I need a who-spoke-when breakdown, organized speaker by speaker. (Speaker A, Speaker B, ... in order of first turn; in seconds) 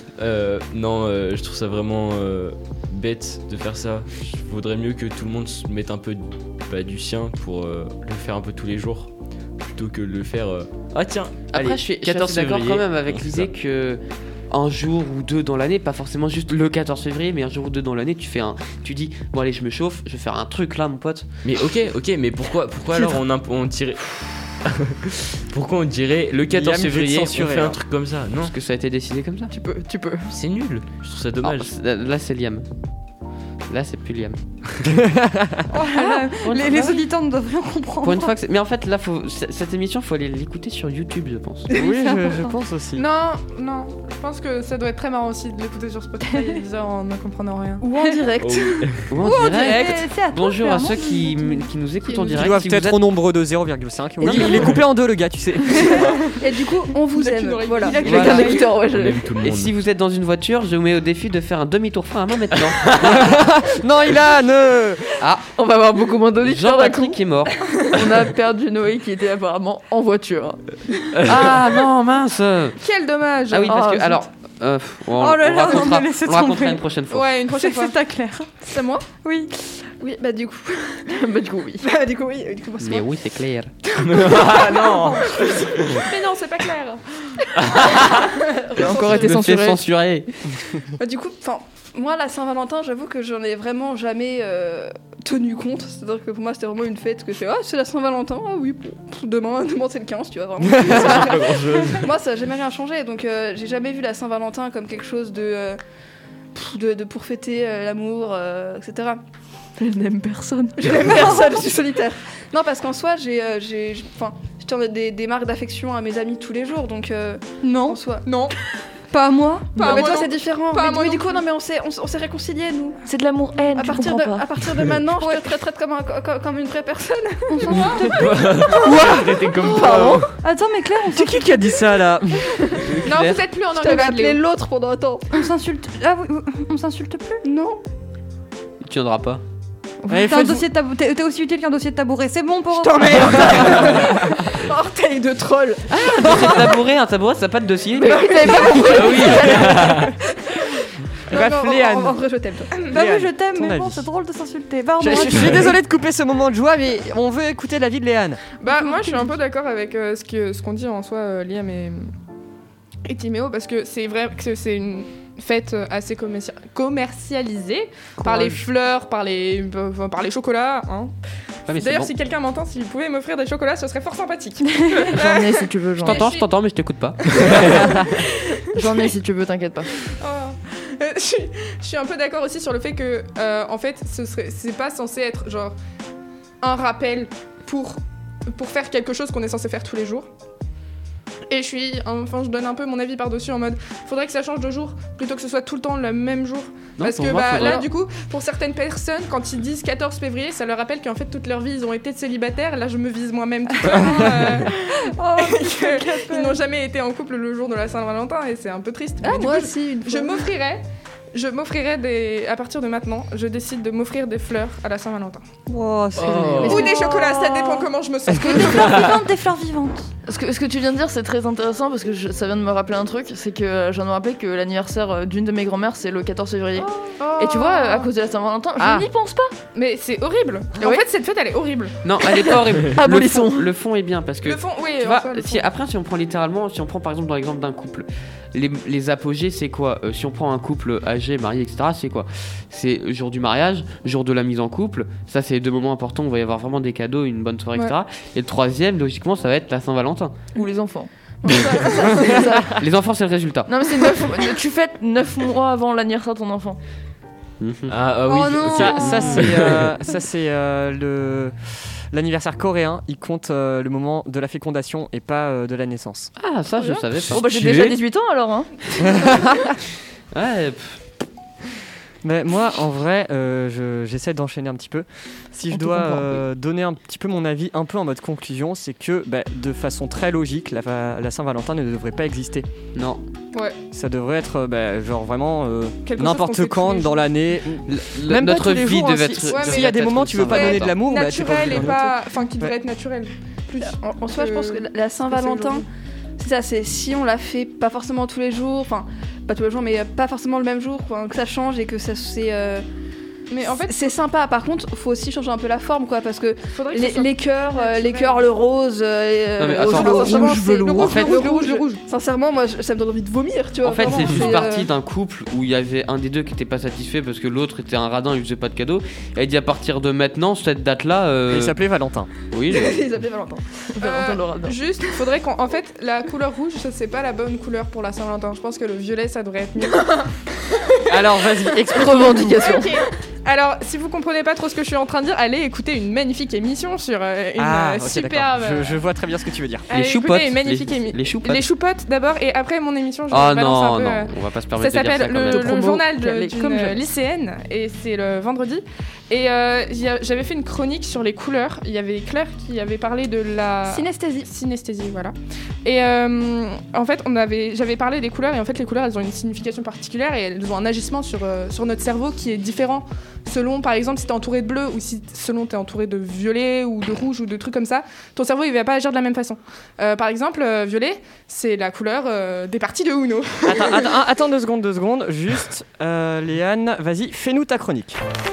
Speaker A: 0.2-13.5, 21.4-28.6, 30.3-31.7, 48.4-49.2, 58.8-59.8, 71.2-71.6, 84.0-86.1, 87.6-88.2, 100.9-102.1, 127.9-130.4, 148.8-150.1, 216.2-216.9, 218.7-219.2, 257.9-259.9, 267.2-268.0
Speaker B: 11.5-21.3, 28.3-29.5, 31.4-32.7, 33.7-34.4, 35.9-37.0, 38.0-41.7, 49.1-53.0, 54.2-54.8, 58.0-58.5, 59.4-63.4, 65.2-65.5, 66.4-67.7, 71.2-72.8, 73.5-77.3, 82.8-83.8, 88.8-90.3, 132.8-133.4, 138.8-139.4, 145.9-148.8, 171.7-172.1, 176.0-178.0, 197.0-197.9, 232.0-250.4, 252.3-254.3, 257.6-258.0, 266.4-267.4, 270.3-271.0, 282.9-283.2, 287.9-291.0, 309.6-311.4, 313.8-321.8, 322.5-323.1, 339.9-341.7, 343.3-345.9
Speaker C: 26.5-27.8, 34.8-35.7, 41.8-43.1, 52.3-56.2, 63.0-65.2, 100.6-101.0, 131.1-132.6, 140.1-140.7, 151.3-152.2, 152.9-154.1, 155.0-158.4, 215.7-216.8, 258.7-266.3, 269.0-269.6, 272.2-282.7, 283.9-292.7, 321.5-322.3, 331.1-332.6, 337.6-339.9, 373.6-378.2
Speaker D: 29.5-30.3, 47.9-48.7, 58.0-59.2, 65.6-67.2, 67.8-70.8, 73.7-74.2, 81.1-81.8, 88.7-89.8, 109.8-111.1, 123.1-124.5, 128.7-130.3, 146.1-146.5, 148.0-149.7, 168.2-168.6, 175.0-176.3, 178.7-180.0, 216.2-216.7, 220.3-229.5, 230.8-231.1, 232.2-233.7, 250.5-252.8, 253.7-256.8, 267.3-269.3, 275.7-276.4, 309.8-311.4, 323.9-324.8, 331.9-332.9, 345.5-347.0
Speaker E: 35.7-38.3, 41.7-42.5, 48.0-48.3, 49.2-51.7, 56.0-56.3, 57.8-58.8, 75.2-76.8, 77.4-78.6, 79.2-79.7, 84.8-85.3, 111.0-111.5, 117.6-118.0, 119.1-120.2, 123.8-124.2, 125.2-125.5, 127.5-128.5, 130.3-131.7, 135.3-137.4, 140.0-143.7, 152.9-155.8, 158.7-159.4, 203.8-206.6, 216.6-220.1, 258.3-259.2
Speaker F: 43.0-47.9, 52.1-52.5, 57.1-58.7, 72.8-73.9, 77.1-78.0, 86.0-87.3, 118.2-118.6, 119.8-121.5, 133.0-134.4, 158.6-162.1, 163.1-171.1, 171.7-176.5, 177.2-178.9, 180.2-185.8, 186.6-188.0, 188.5-190.3, 191.5-215.4, 216.6-219.1, 227.2-228.1, 229.7-232.0, 234.4-235.6, 266.8-267.1, 283.5-283.8, 286.1-287.3, 289.5-295.9, 303.5-304.1, 306.7-308.5, 309.9-312.0, 324.0-330.2, 332.5-339.0, 339.9-374.1
Speaker G: 48.0-48.6, 56.4-58.1, 78.7-79.1, 80.0-81.2, 81.8-83.1, 84.1-86.0, 87.8-89.3, 91.0-105.8, 106.5-109.2, 110.8-118.2, 119.8-123.0, 123.7-128.2, 128.7-129.2, 133.1-135.3, 137.4-137.8, 142.8-146.5, 148.0-150.6, 151.3-152.8, 209.2-210.5, 251.5-252.4, 293.8-295.9, 296.4-302.9, 303.7-314.9, 322.7-323.8, 353.9-354.5